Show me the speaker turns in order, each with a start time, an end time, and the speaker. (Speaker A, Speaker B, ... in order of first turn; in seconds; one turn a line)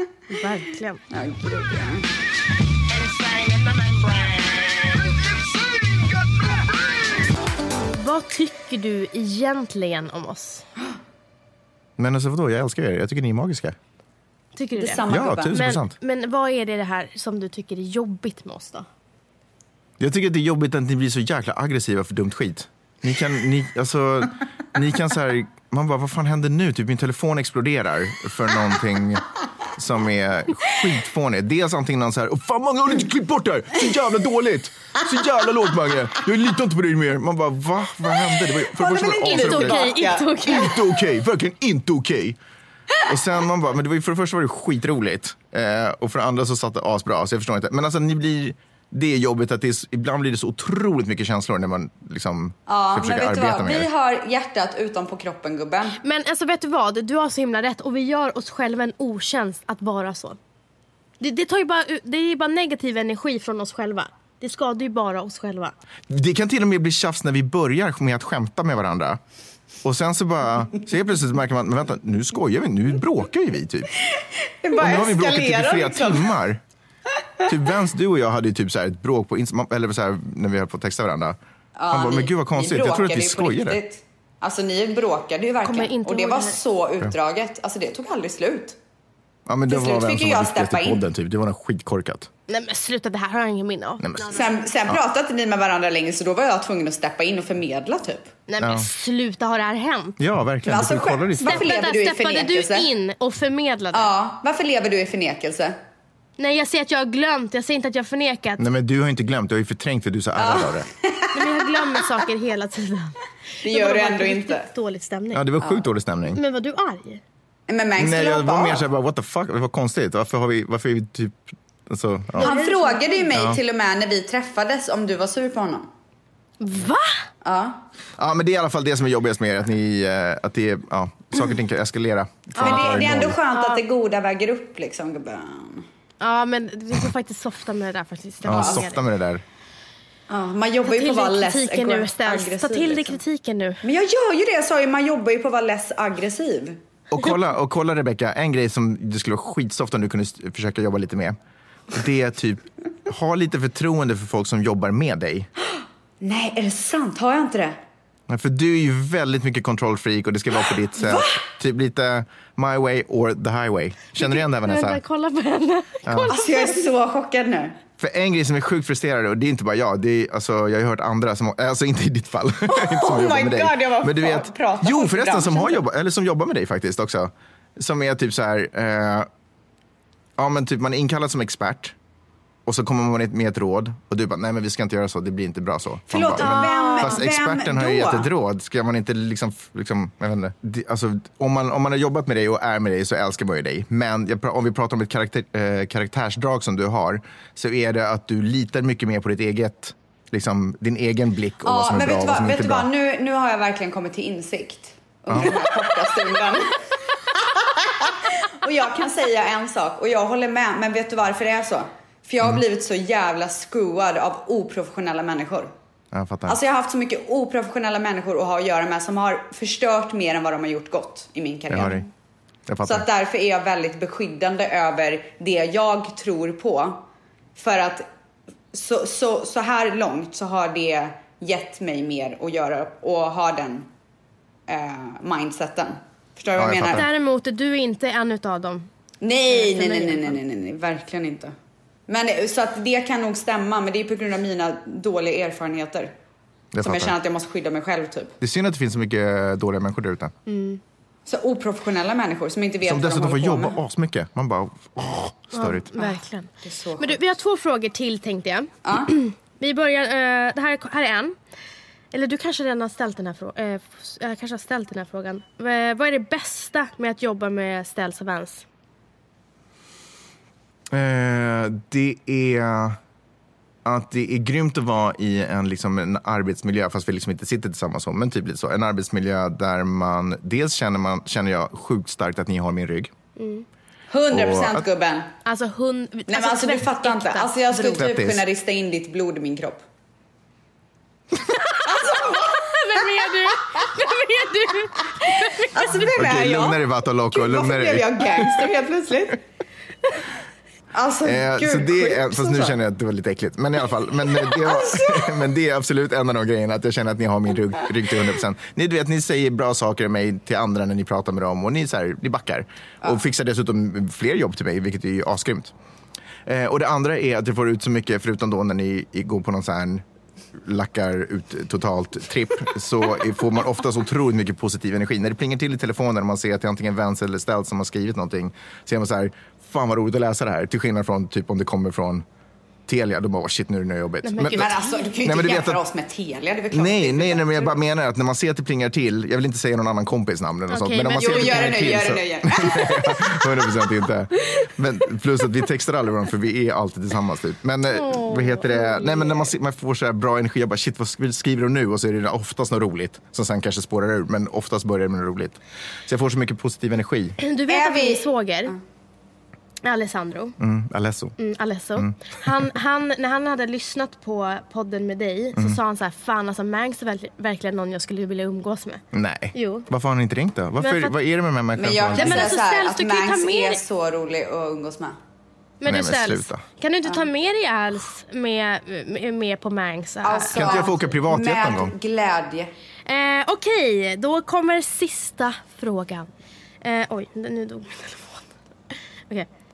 Speaker A: 0.3-1.0
Speaker B: 1.1-2.1
Speaker A: 7.9-10.7
Speaker C: 12.0-13.8
Speaker A: 14.6-18.9
Speaker B: 14.8-15.6
Speaker C: 15.1-15.9
Speaker C: 20.0-39.9
Speaker B: 38.7-40.8
Speaker A: 39.2-40.8
Speaker C: 40.4-42.4
Speaker C: 43.0-53.9
Speaker B: 52.7-56.0
Speaker A: 56.0-60.4
Speaker A: 61.2-65.7
Speaker C: 66.1-69.2
Speaker C: 69.8-73.9
Speaker B: 74.1-76.3
Speaker C: 74.8-76.6
Speaker C: 77.5-81.4
Speaker B: 81.8-88.8
Speaker C: 81.9-83.8
Speaker A: 85.6-86.6
Speaker C: 89.5-92.3
Speaker B: 89.7-91.0
Speaker A: 92.5-94.3
Speaker C: 94.0-95.0
Speaker B: 94.3-98.3
Speaker A: 98.5-100.2
Speaker C: 98.6-98.9
Speaker C: 100.2-101.7
Speaker B: 100.7-102.9
Speaker A: 101.4-104.1
Speaker B: 103.9-105.8
Speaker A: 106.4-108.6
Speaker C: 108.6-110.9
Speaker B: 110.4-111.9
Speaker A: 111.3-115.5
Speaker B: 113.6-114.7
Speaker C: 115.3-116.4
Speaker A: 116.3-117.2
Speaker B: 117.7-118.8
Speaker C: 118.0-122.5
Speaker A: 122.4-123.3
Speaker B: 122.4-125.9
Speaker C: 123.3-123.6
Speaker A: 126.6-127.2
Speaker B: 127.4-127.8
Speaker C: 128.2-133.4
Speaker A: 132.6-133.8
Speaker B: 132.6-135.9
Speaker A: 136.2-139.0
Speaker C: 138.4-139.4
Speaker B: 138.5-138.8
Speaker B: 140.3-143.2
Speaker A: 140.9-143.8
Speaker B: 143.8-146.8
Speaker C: 147.1-151.4
Speaker C: 151.9-155.5
Speaker B: 156.2-157.8
Speaker C: 158.3-165.0
Speaker B: 161.0-161.4
Speaker A: 164.2-166.9
Speaker C: 166.1-166.3
Speaker B: 166.3-167.8
Speaker C: 168.0-179.3
Speaker B: 172.7-175.8
Speaker C: 180.4-182.0
Speaker C: 182.7-202.9
Speaker B: 186.1-188.3
Speaker A: 186.4-187.2
Speaker B: 201.6-215.7
Speaker C: 205.3-205.6
Speaker C: 216.1-216.6
Speaker B: 216.5-222.0
Speaker C: 221.7-222.1
Speaker C: 222.7-223.1
Speaker B: 222.8-227.1
Speaker B: 227.6-228.1
Speaker B: 228.7-233.9
Speaker B: 234.7-237.1
Speaker C: 236.6-237.1
Speaker A: 236.9-238.9
Speaker B: 239.2-241.5
Speaker A: 239.5-240.4
Speaker B: 242.1-246.1
Speaker C: 246.7-247.1
Speaker B: 246.8-248.4
Speaker C: 248.4-250.3
Speaker A: 250.5-250.8
Speaker B: 251.3-253.8
Speaker C: 252.8-255.9
Speaker A: 255.5-261.3
Speaker B: 256.0-257.2
Speaker B: 258.9-259.1
Speaker A: 262.1-268.6
Speaker C: 270.9-273.0
Speaker C: 273.9-283.1
Speaker A: 283.4-283.7
Speaker B: 284.1-285.3
Speaker C: 284.3-284.9
Speaker A: 285.4-288.0
Speaker B: 286.3-289.8
Speaker C: 287.9-288.4
Speaker A: 291.7-296.1
Speaker B: 291.9-292.8
Speaker B: 295.4-299.4
Speaker C: 296.1-298.6
Speaker B: 300.9-302.8
Speaker C: 301.2-315.7
Speaker B: 304.4-305.4
Speaker C: 316.5-320.0
Speaker C: 320.6-332.2
Speaker C: 332.9-335.8
Speaker A: 334.2-334.8
Speaker B: 334.5-337.8
Speaker C: 336.7-357.4
Speaker A: 340.7-342.0
Speaker B: 341.2-343.9
Speaker A: 347.9-349.4
Speaker A: 357.4-358.8
Speaker B: 357.7-358.8
Speaker A: 359.8-360.6
Speaker C: 360.6-361.4
Speaker A: 361.4-369.0
Speaker C: 369.1-372.5
Speaker A: 369.5-369.9
Speaker A: 370.8-371.1
Speaker B: 371.8-375.2
Speaker A: 372.1-373.8
Speaker A: 375.8-380.8
Speaker C: 375.9-376.6
Speaker B: 380.2-382.7
Speaker C: 380.5-381.9
Speaker A: 383.1-386.3
Speaker A: 386.8-388.5